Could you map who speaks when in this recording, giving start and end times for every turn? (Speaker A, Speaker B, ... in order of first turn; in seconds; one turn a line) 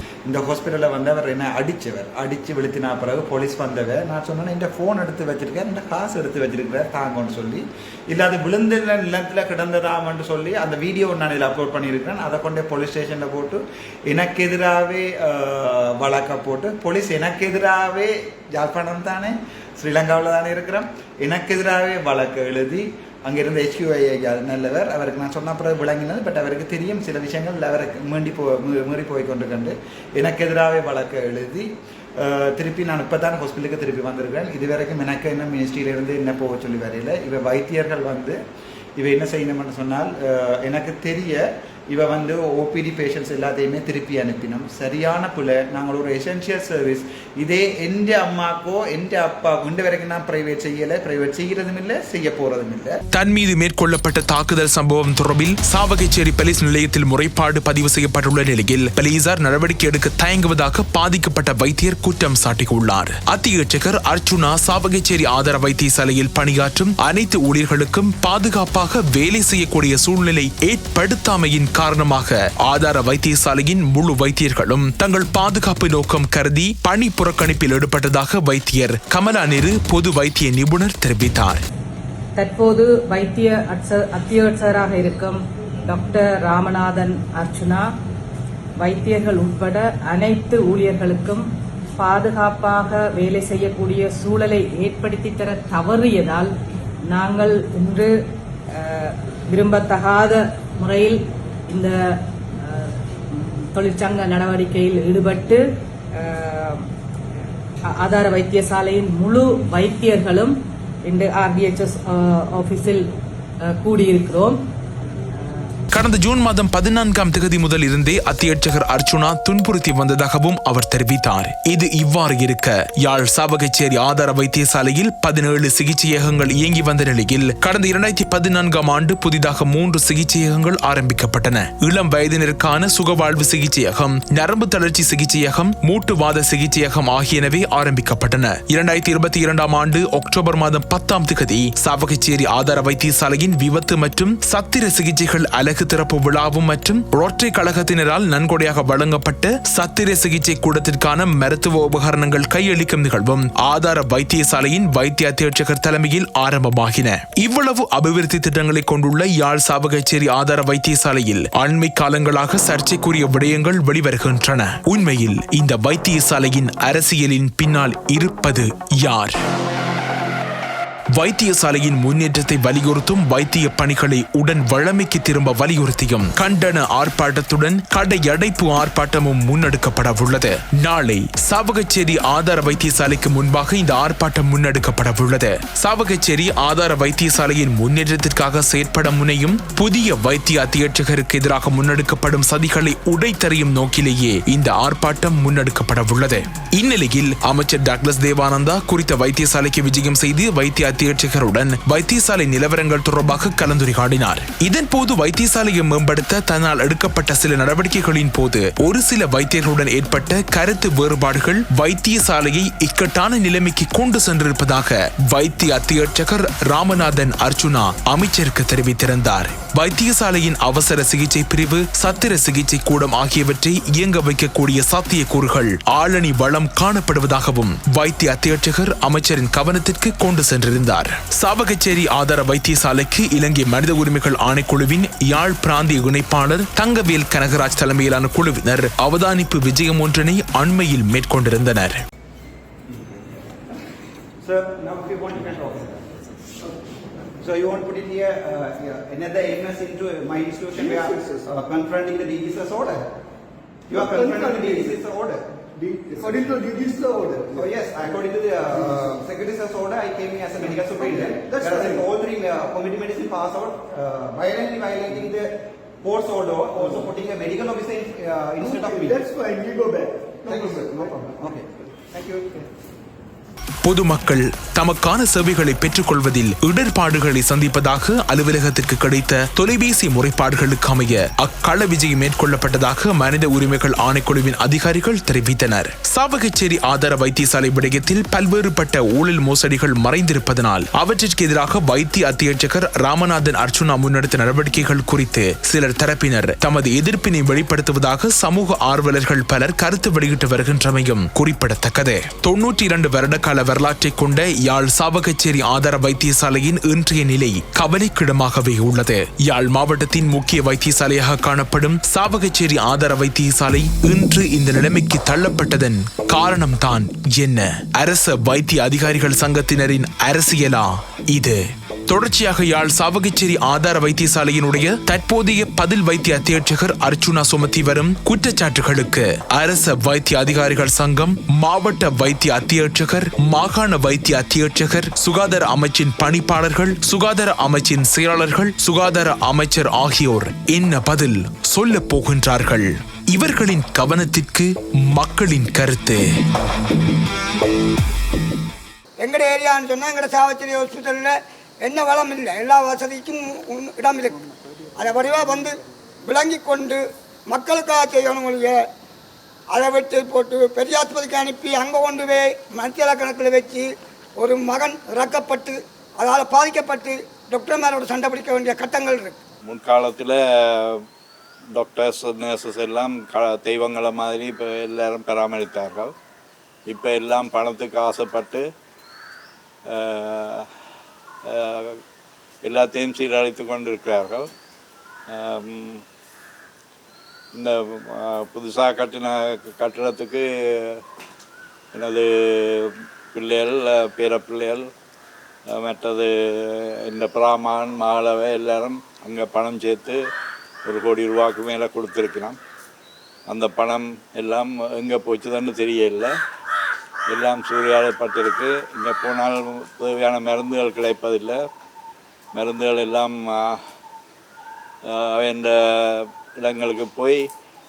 Speaker A: 0.3-38.4
Speaker A: 39.0-53.0
Speaker B: 53.1-81.6
Speaker C: 82.3-87.9
Speaker C: 88.8-91.4
Speaker C: 92.0-96.5
Speaker C: 97.1-98.1
Speaker C: 98.7-101.9
Speaker C: 102.6-105.6
Speaker C: 106.2-106.8
Speaker C: 107.9-110.5
Speaker C: 111.0-113.0
Speaker C: 113.6-114.6
Speaker C: 115.3-115.7
Speaker B: 115.9-169.4
Speaker B: 171.1-242.0
Speaker A: 244.4-245.9
Speaker A: 247.4-253.0
Speaker D: 250.8-251.5
Speaker D: 253.9-255.0
Speaker A: 253.9-255.4
Speaker D: 255.8-258.2
Speaker A: 256.1-256.5
Speaker A: 257.5-265.5
Speaker D: 258.7-259.2
Speaker D: 260.7-262.1
Speaker A: 266.0-269.3
Speaker D: 268.6-271.5
Speaker A: 270.4-272.6
Speaker B: 273.8-346.2
Speaker E: 349.2-354.4
Speaker E: 354.9-358.8
Speaker E: 359.7-369.4
Speaker F: 369.6-371.0
Speaker F: 371.7-376.1
Speaker F: 376.9-378.6
Speaker F: 379.9-380.7
Speaker F: 381.4-382.0
Speaker F: 382.6-384.5
Speaker F: 385.3-386.0
Speaker F: 387.5-391.0
Speaker F: 391.9-394.9
Speaker F: 395.7-400.2
Speaker F: 400.9-402.6
Speaker F: 403.5-406.3
Speaker F: 407.3-411.6
Speaker F: 412.5-413.8
Speaker F: 415.1-417.4